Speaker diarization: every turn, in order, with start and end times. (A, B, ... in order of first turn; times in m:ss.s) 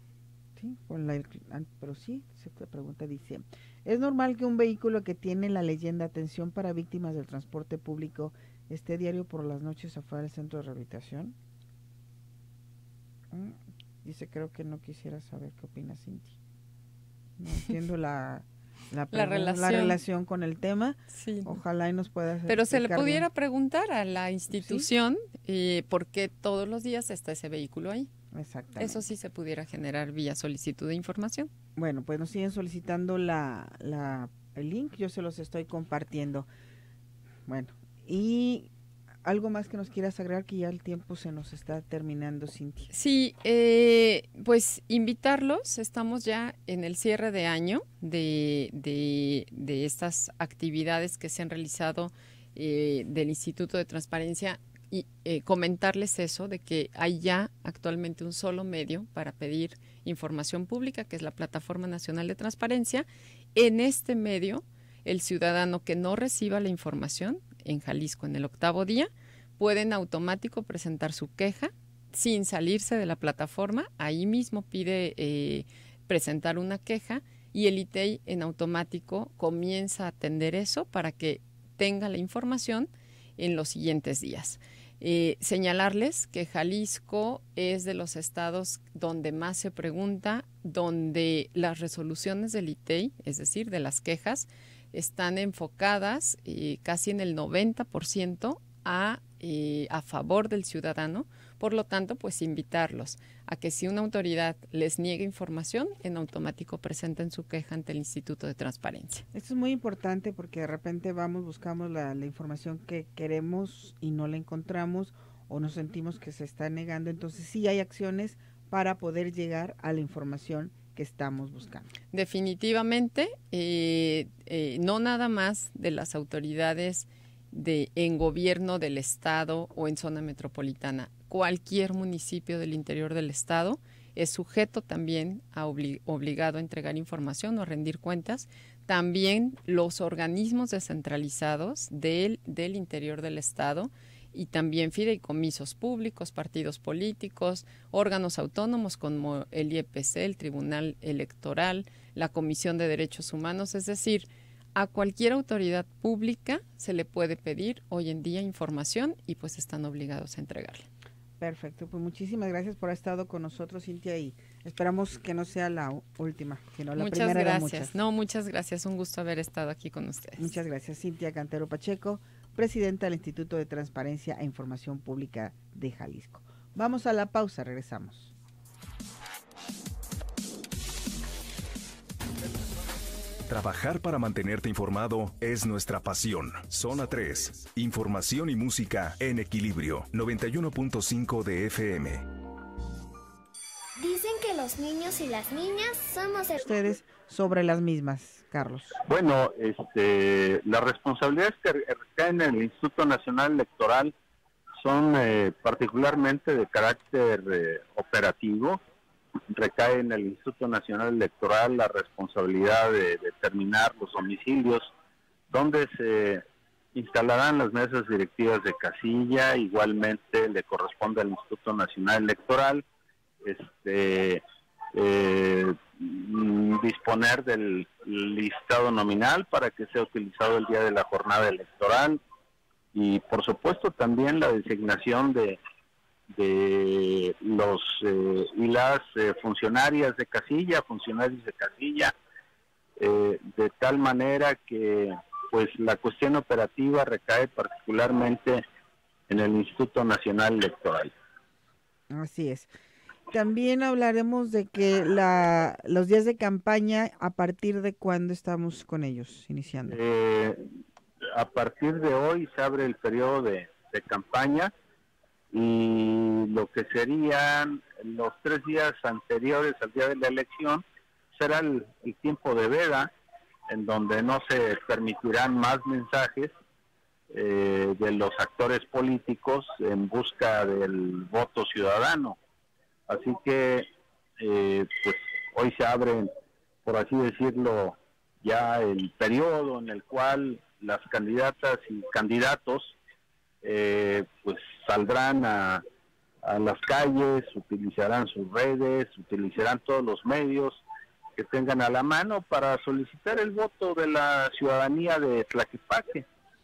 0:00.6-0:11.3 A
0:13.3-0:16.3 A
0:17.4-0:23.2 A
0:19.1-0:20.0 B
0:21.1-0:21.5 B
0:22.4-0:28.1 B
0:24.6-0:24.9 A
0:28.3-0:29.1 A
0:28.8-0:31.5 B
0:31.8-0:36.5 A
0:37.5-0:38.7 A
0:39.2-0:42.9 A
0:42.9-1:49.2 B
1:49.3-2:01.9 A
2:02.1-2:40.9 B
2:41.4-2:47.9 A
2:47.0-2:50.6 B
2:50.4-2:58.3 A
3:03.5-3:12.2 C
3:14.0-3:16.6 D
3:16.6-3:19.0 A
3:19.1-3:24.1 E
3:24.8-3:28.8 E
3:29.5-3:34.9 E
3:35.5-3:36.4 E
3:36.9-3:42.8 E
3:43.4-3:44.4 E
3:44.9-3:52.2 E
3:52.9-3:55.6 E
3:56.3-4:02.1 E
4:03.0-4:08.6 E
4:09.3-4:11.1 E
4:12.1-4:12.7 A
4:13.3-4:20.0 A
4:19.9-4:20.6 E
4:21.3-4:24.7 E
4:25.5-4:33.1 E
4:33.7-4:36.5 E
4:37.3-4:42.4 E
4:43.1-4:43.9 E
4:44.4-4:46.3 E
4:46.8-4:52.9 E
4:53.6-4:55.8 E
4:56.4-5:00.8 E
5:01.4-5:06.2 E